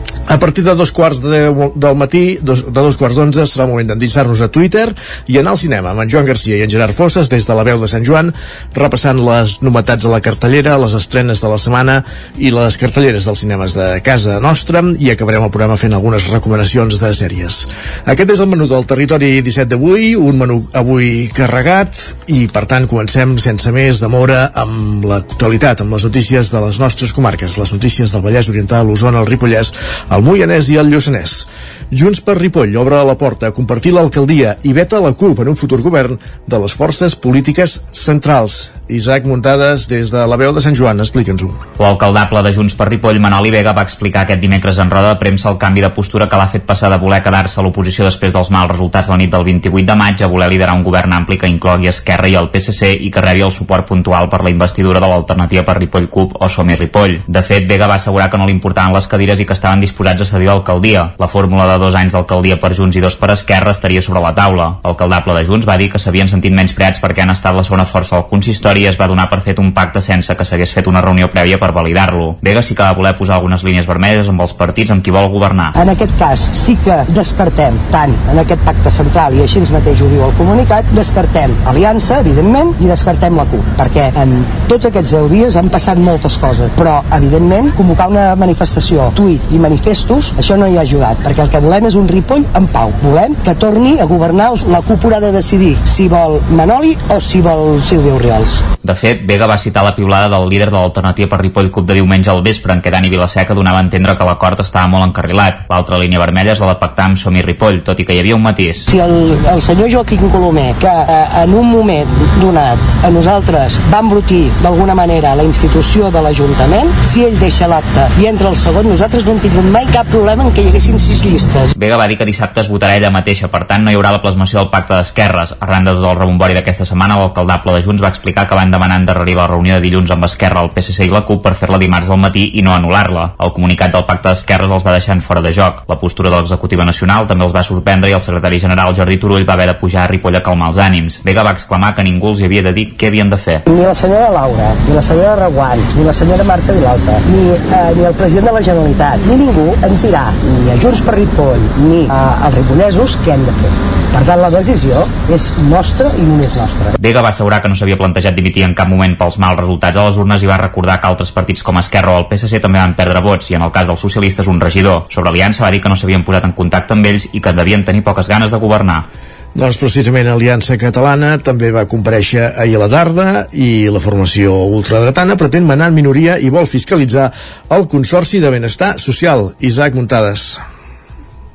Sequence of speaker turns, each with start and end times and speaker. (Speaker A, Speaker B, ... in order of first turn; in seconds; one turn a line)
Speaker A: 0.3-41.6
Speaker B: 41.8-75.7
Speaker C: 75.7-98.6
Speaker B: 98.8-108.8
Speaker C: 108.9-121.7
Speaker B: 121.7-143.6
Speaker C: 143.7-156.9
Speaker B: 157.0-169.0
Speaker A: 169.5-180.6